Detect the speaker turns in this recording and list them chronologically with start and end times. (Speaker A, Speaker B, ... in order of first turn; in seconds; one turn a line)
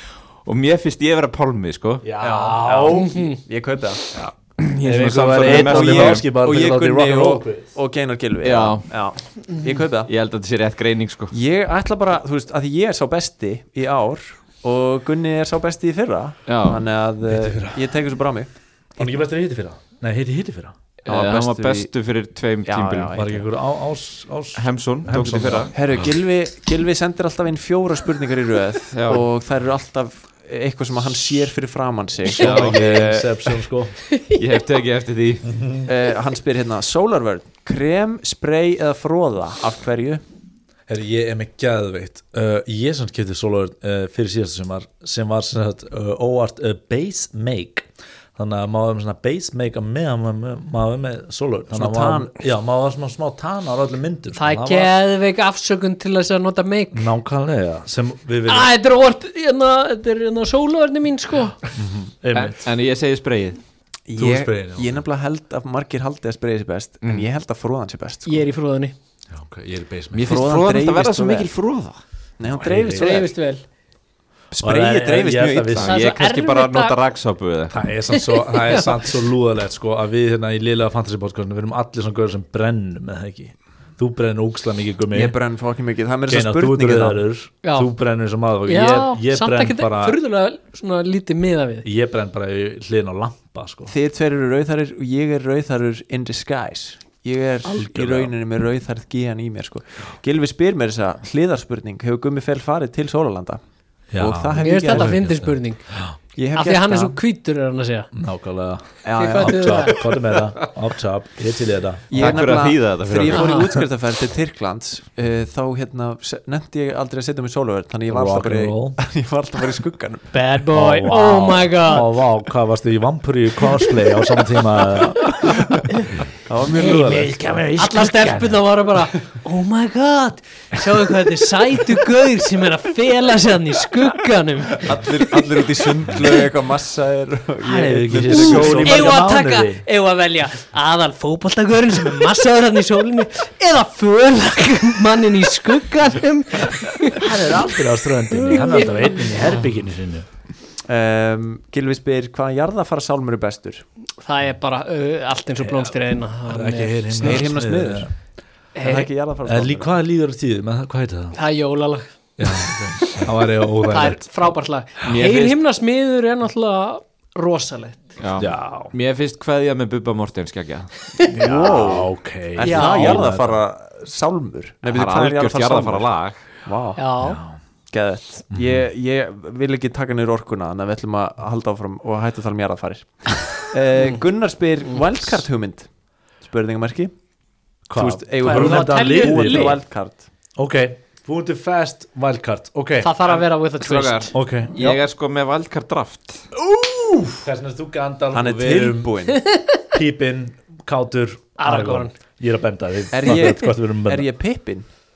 Speaker A: 0.4-2.0
Speaker B: 2.0-3.1
Speaker C: 2.2-4.1
Speaker D: 2.9-3.4
Speaker A: 4.1-6.2
Speaker B: 4.8-7.7
Speaker C: 5.4-10.1
Speaker A: 8.4-9.0
Speaker A: 10.0-11.3
Speaker C: 11.3-19.1
Speaker A: 16.4-16.8
Speaker B: 17.3-17.9
Speaker B: 19.0-20.7
Speaker A: 21.0-23.2
Speaker C: 21.1-21.9
Speaker C: 22.6-23.4
Speaker B: 23.1-25.7
Speaker A: 24.5-25.7
Speaker C: 25.7-33.6
Speaker A: 28.9-29.3
Speaker A: 32.3-33.0
Speaker B: 32.3-34.0
Speaker D: 34.1-34.4
Speaker A: 34.3-35.6
Speaker B: 35.5-35.9
Speaker C: 35.8-40.2
Speaker B: 40.9-54.9
Speaker C: 51.7-52.4
Speaker D: 54.3-57.1
Speaker B: 56.9-58.7
Speaker D: 58.5-61.6
Speaker B: 61.7-62.6
Speaker A: 62.3-63.6
Speaker C: 64.1-68.4
Speaker B: 64.2-65.0
Speaker A: 67.0-67.3
Speaker D: 68.2-68.9
Speaker B: 69.3-70.4
Speaker A: 70.1-72.0
Speaker C: 70.2-71.5
Speaker C: 72.4-73.3
Speaker B: 72.5-73.2
Speaker D: 73.0-73.6
Speaker C: 74.5-75.9
Speaker B: 74.6-76.0
Speaker A: 75.7-77.8
Speaker D: 75.8-77.0
Speaker B: 77.7-85.3
Speaker D: 78.1-79.0
Speaker C: 85.1-87.2
Speaker B: 86.3-90.2
Speaker D: 87.6-87.9
Speaker D: 88.7-91.8
Speaker B: 91.8-93.9
Speaker C: 93.9-103.6
Speaker B: 97.6-98.3
Speaker B: 104.1-106.1
Speaker C: 104.2-105.2
Speaker D: 104.6-105.9
Speaker C: 106.3-107.2
Speaker D: 106.5-108.1
Speaker B: 108.1-112.4
Speaker C: 109.0-110.0
Speaker D: 109.2-110.0
Speaker C: 112.1-120.3
Speaker A: 112.1-113.7
Speaker D: 113.3-113.7
Speaker B: 118.1-119.0
Speaker D: 120.3-122.1
Speaker B: 120.7-125.8
Speaker C: 126.5-127.3
Speaker B: 126.7-128.6
Speaker D: 126.7-135.0
Speaker C: 134.8-139.2
Speaker B: 137.6-139.8
Speaker D: 138.3-147.2
Speaker B: 147.1-150.3
Speaker D: 148.5-149.2
Speaker C: 150.8-153.8
Speaker D: 154.2-157.4
Speaker B: 156.5-158.1
Speaker C: 157.2-158.1
Speaker D: 158.8-159.1
Speaker C: 158.8-159.9
Speaker B: 159.4-161.4
Speaker D: 161.3-163.3
Speaker B: 162.4-164.3
Speaker D: 163.8-168.1
Speaker A: 165.0-165.6
Speaker A: 168.2-171.1
Speaker B: 168.4-168.9
Speaker C: 171.3-176.1
Speaker B: 171.3-173.6
Speaker D: 172.6-173.3
Speaker A: 174.8-176.4
Speaker C: 176.6-177.0
Speaker D: 177.0-177.4
Speaker B: 177.2-177.5
Speaker C: 177.9-185.9
Speaker B: 178.5-178.8
Speaker C: 186.4-187.1
Speaker B: 187.9-189.8
Speaker C: 187.9-190.2
Speaker D: 188.4-189.8
Speaker B: 190.6-193.1
Speaker D: 193.0-194.3
Speaker A: 193.2-196.4
Speaker B: 194.3-195.0
Speaker B: 197.3-199.1
Speaker C: 198.3-199.4
Speaker D: 199.3-199.8
Speaker B: 199.9-204.3
Speaker D: 201.6-202.1
Speaker C: 203.1-204.9